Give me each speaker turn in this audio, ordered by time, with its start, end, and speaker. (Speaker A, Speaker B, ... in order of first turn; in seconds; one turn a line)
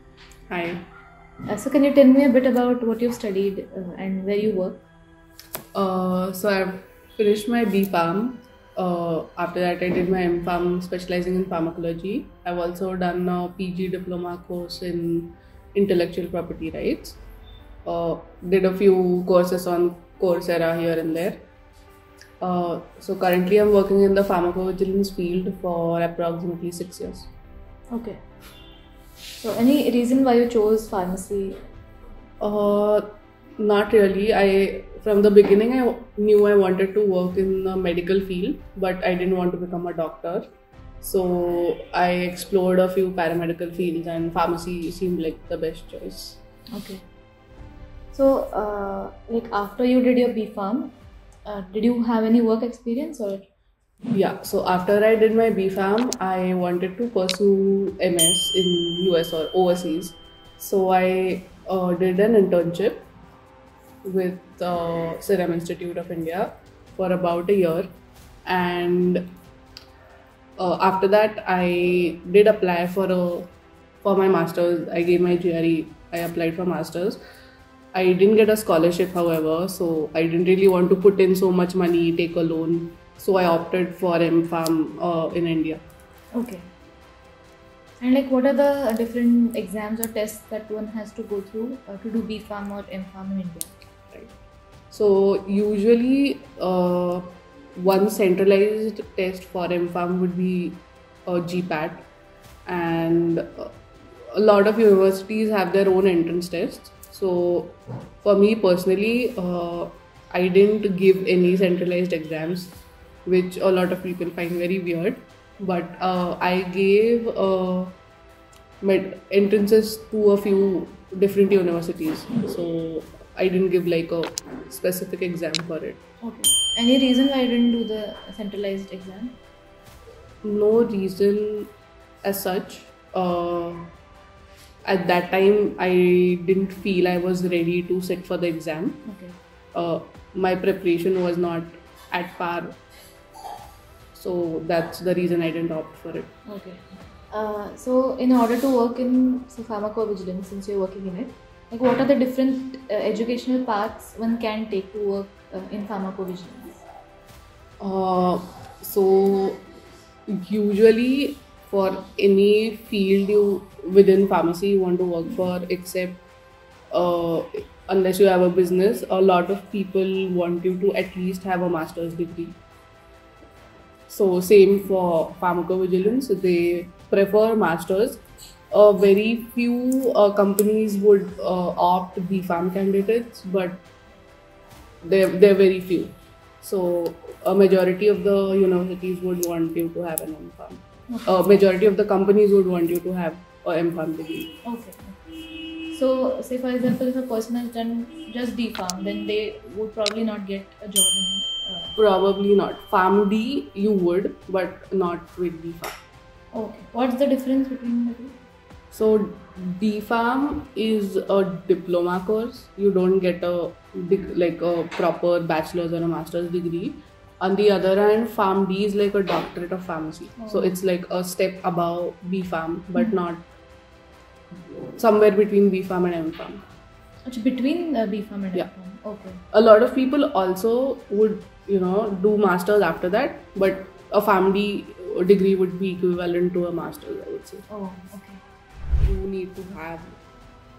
Speaker A: 0.5-0.8
Speaker B: 1.5-4.9
Speaker A: 5.7-17.2
Speaker A: 17.9-21.4
Speaker A: 22.4-27.3
Speaker B: 27.9-28.2
Speaker B: 29.4-31.6
Speaker A: 32.4-40.5
Speaker A: 41.0-46.4
Speaker B: 46.7-47.0
Speaker B: 48.1-50.9
Speaker B: 51.5-53.5
Speaker A: 54.1-63.1
Speaker A: 64.0-67.9
Speaker A: 68.5-69.2
Speaker A: 70.6-73.5
Speaker A: 74.0-77.2
Speaker A: 77.9-85.8
Speaker B: 86.3-86.7
Speaker B: 88.0-93.7
Speaker A: 94.9-102.1
Speaker A: 102.7-103.7
Speaker A: 104.3-118.0
Speaker A: 118.8-126.0
Speaker B: 126.2-129.4
Speaker A: 130.4-131.7
Speaker A: 132.2-133.9
Speaker A: 134.8-139.0
Speaker B: 139.0-139.4
Speaker A: 139.7-142.8
Speaker A: 144.1-146.3
Speaker B: 146.5-156.8
Speaker A: 157.8-159.6
Speaker A: 160.3-166.2
Speaker A: 166.9-172.6
Speaker A: 174.1-183.8
Speaker A: 185.0-194.6
Speaker B: 191.1-191.5
Speaker B: 194.6-195.2
Speaker B: 195.8-201.9
Speaker A: 201.9-205.9
Speaker B: 206.5-208.3
Speaker A: 208.9-223.5
Speaker B: 220.4-220.8
Speaker A: 224.9-226.6
Speaker B: 227.2-229.4
Speaker A: 229.5-237.6
Speaker B: 237.7-238.4
Speaker A: 239.0-240.2